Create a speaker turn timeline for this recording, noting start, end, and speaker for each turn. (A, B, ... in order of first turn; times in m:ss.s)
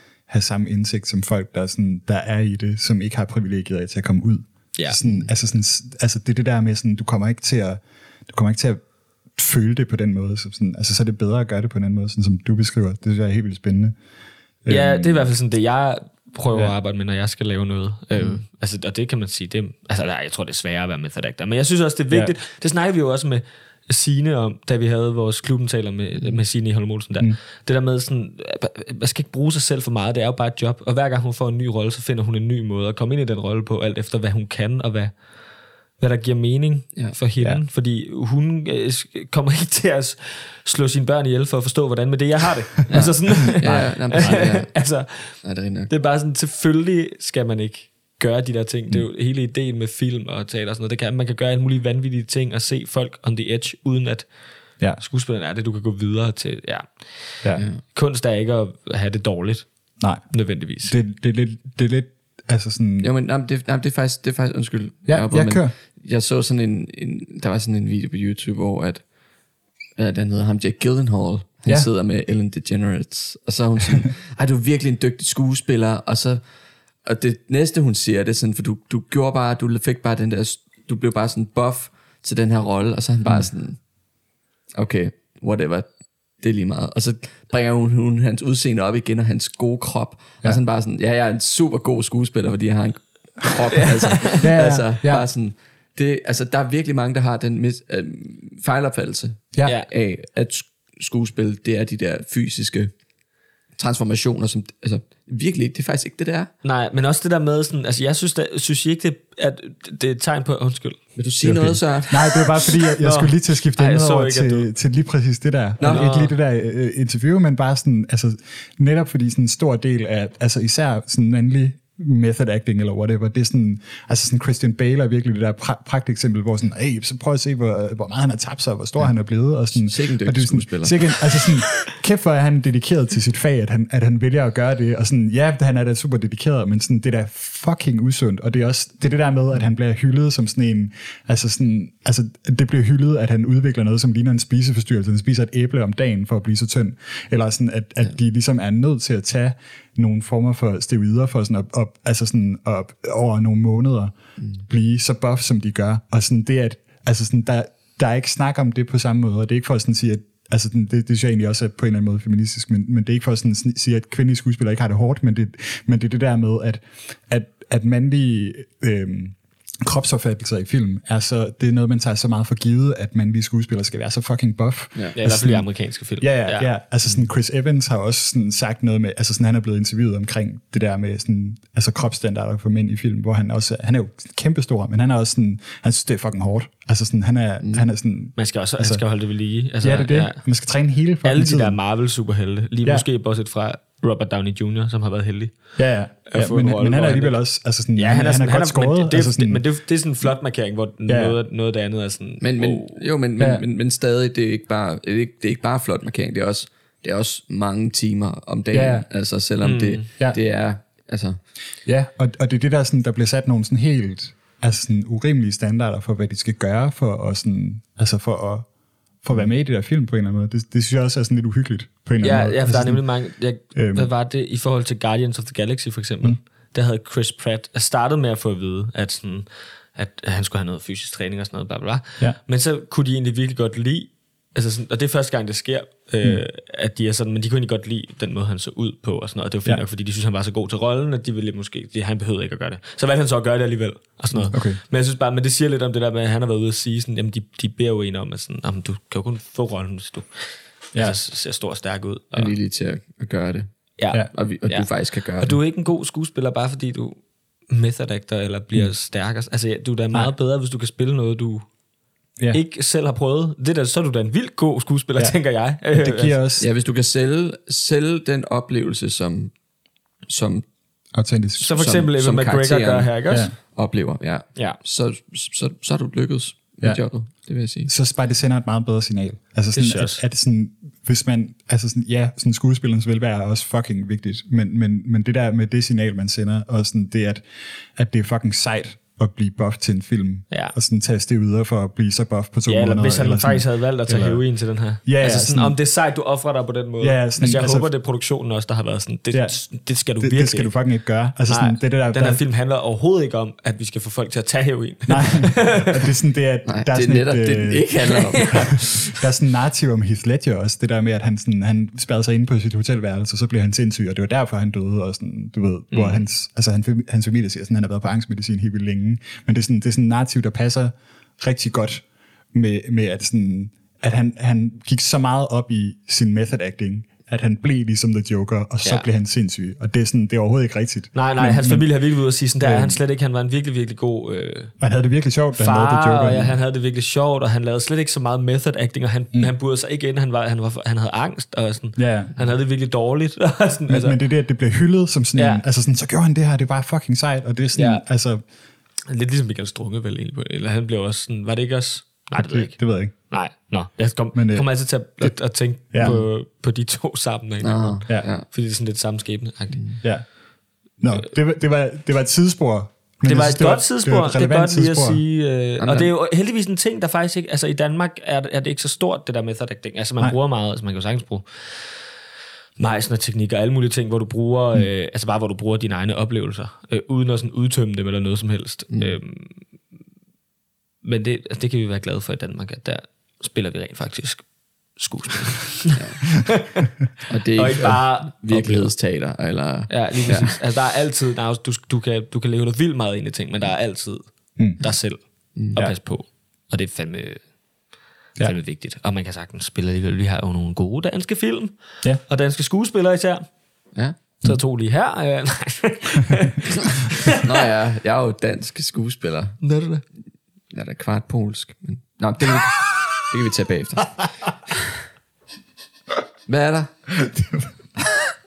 0:00.3-0:08.8 A
0:05.0-0:05.3 B
0:09.4-0:14.0 A
0:14.6-0:15.3 A
0:14.7-0:35.1 C
0:36.0-0:54.3 C
0:42.9-0:44.7 B
0:43.5-0:43.9 A
0:45.4-0:45.9 B
0:55.0-0:59.7 C
1:00.0-1:03.1 A
1:00.3-1:00.9 C
1:03.0-1:09.0 B
1:05.1-1:05.7 A
1:10.0-1:16.4 B
1:17.0-1:23.8 B
1:24.8-1:25.9 B
1:26.4-1:42.9 B
1:34.0-1:34.4 C
1:34.4-1:35.3 A
1:43.8-1:46.5 B
1:46.6-1:51.0 C
1:51.2-1:52.4 B
1:51.4-2:55.7 A
1:52.8-1:54.7 C
1:55.8-1:56.1 B
1:55.8-1:56.4 C
2:09.7-2:11.2 B
2:55.2-2:56.7 C
2:56.2-3:09.0 A
3:08.4-3:10.5 C
3:09.8-3:11.8 A
3:11.2-3:15.7 C
3:15.8-3:19.6 A
3:16.3-3:17.4 C
3:18.0-3:23.0 C
3:21.1-3:21.4 A
3:22.4-3:31.4 B
3:23.4-3:23.6 A
3:28.7-3:29.1 A
3:29.6-3:30.1 C
3:31.9-3:38.7 A
3:39.2-3:43.0 A
3:42.2-4:10.3 C
3:43.7-3:44.1 A
4:04.4-4:04.8 A
4:10.9-4:12.5 C
4:12.4-4:13.7 B
4:14.0-4:21.7 C
4:14.3-4:15.6 B
4:22.5-4:26.4 C
4:25.9-4:26.7 A
4:26.6-4:29.5 B
4:30.3-4:30.7 B
4:31.1-4:32.1 A
4:31.6-4:33.5 C
4:31.8-4:37.9 B
4:37.9-4:47.4 A
4:39.7-4:40.2 C
4:48.0-4:54.4 A
4:52.7-5:00.8 C
4:55.0-4:55.8 A
4:57.0-4:57.9 A
5:00.2-5:02.4 A
5:01.5-5:06.1 C
5:05.1-5:07.9 A
5:06.6-5:08.9 B
5:08.3-5:08.7 C
5:08.5-5:31.9 A
5:15.9-5:16.2 C
5:31.2-5:34.7 C
5:32.6-5:33.0 A
5:34.8-5:36.6 A
5:35.6-5:44.2 C
5:42.0-5:42.4 A
5:43.9-5:48.4 A
5:45.4-5:45.6 C
5:47.8-5:48.0 C
5:49.1-5:59.8 C
5:52.4-5:53.1 A
5:54.3-5:55.4 A
5:55.9-5:56.2 A
5:56.0-5:56.3 B
5:57.6-5:58.4 B
5:59.7-6:00.0 B
6:00.0-6:00.3 A
6:01.0-6:05.2 A
6:03.3-6:11.9 C
6:05.8-6:06.1 B
6:12.8-6:19.6 C
6:18.9-6:19.2 B
6:21.0-6:26.8 C
6:27.3-6:30.6 B
6:27.6-6:28.9 C
6:29.9-6:34.2 C
6:34.8-6:35.2 C
6:35.7-6:37.4 C
6:38.4-6:41.8 C
6:42.3-6:43.4 C
6:44.4-6:47.6 C
6:47.3-6:49.6 B
6:49.6-6:50.0 C
6:50.7-6:54.2 B
6:56.5-6:56.9 B
6:57.2-6:57.7 A